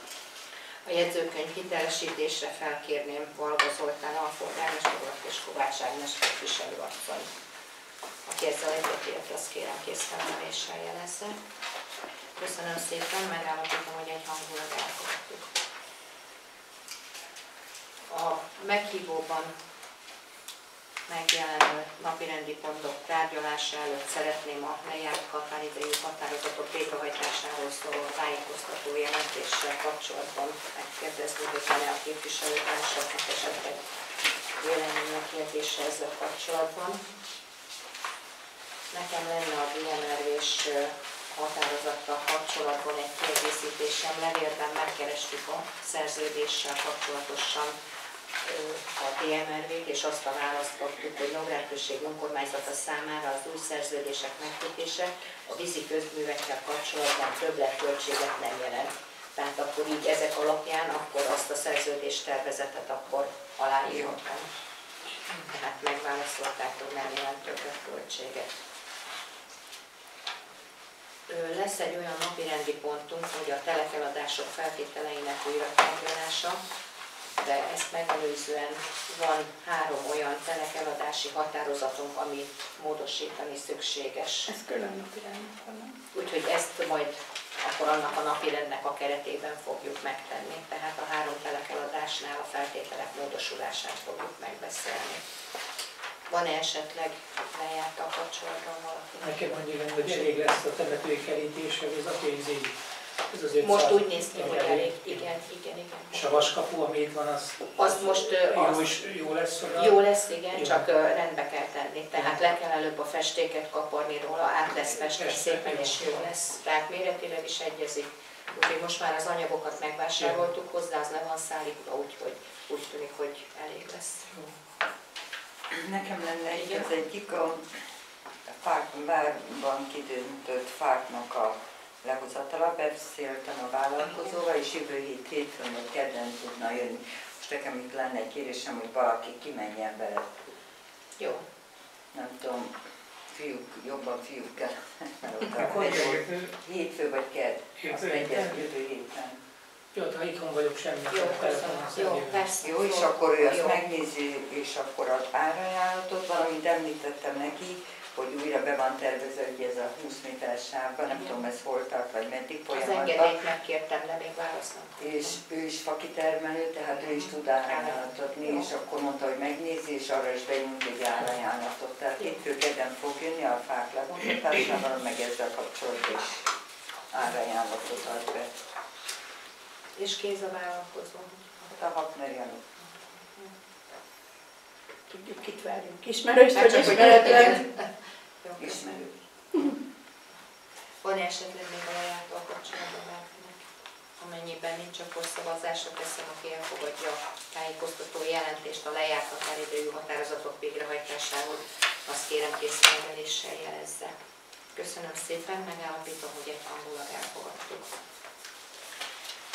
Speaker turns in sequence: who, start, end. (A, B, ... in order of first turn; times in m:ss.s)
0:00.8-0:07.3 A
0:08.2-0:11.4 A
0:12.4-0:15.5 A
0:18.1-0:19.5 A
0:21.1-0:33.8 A
0:34.6-0:37.0 A
0:38.9-0:47.8 A
0:48.4-1:04.5 A
1:05.5-1:08.5 A
1:11.3-1:16.6 A
1:17.4-1:24.5 A
1:24.5-1:25.9 B
1:26.1-1:35.2 A
1:36.3-1:39.5 A
1:39.2-1:42.8 C
1:40.0-1:40.3 A
1:43.3-1:45.2 C
1:43.6-1:46.4 A
1:46.1-1:50.0 C
1:47.8-1:48.9 A
1:49.7-2:04.3 A
1:50.5-1:50.8 C
1:54.9-1:56.3 C
2:00.2-2:00.4 C
2:04.3-2:04.5 C
2:05.7-2:07.6 D
2:06.5-2:06.9 A
2:08.5-2:20.3 D
2:21.2-2:21.4 A
2:22.1-2:22.7 D
2:23.3-2:29.4 D
2:25.6-2:26.5 C
2:27.8-2:28.7 C
2:29.9-2:32.4 C
2:31.1-2:33.8 A
2:32.6-2:43.3 D
2:42.7-2:45.4 A
2:45.0-2:56.5 D
2:47.0-2:48.7 A
2:57.1-2:58.5 D
3:00.0-3:01.7 A
3:01.7-3:02.6 D
3:02.8-3:03.5 A
3:05.1-3:07.6 B
3:06.5-3:07.9 A
3:08.4-3:08.9 A
3:08.6-3:09.2 D
3:11.0-3:13.6 A
3:14.2-3:24.1 A
3:24.7-3:28.0 A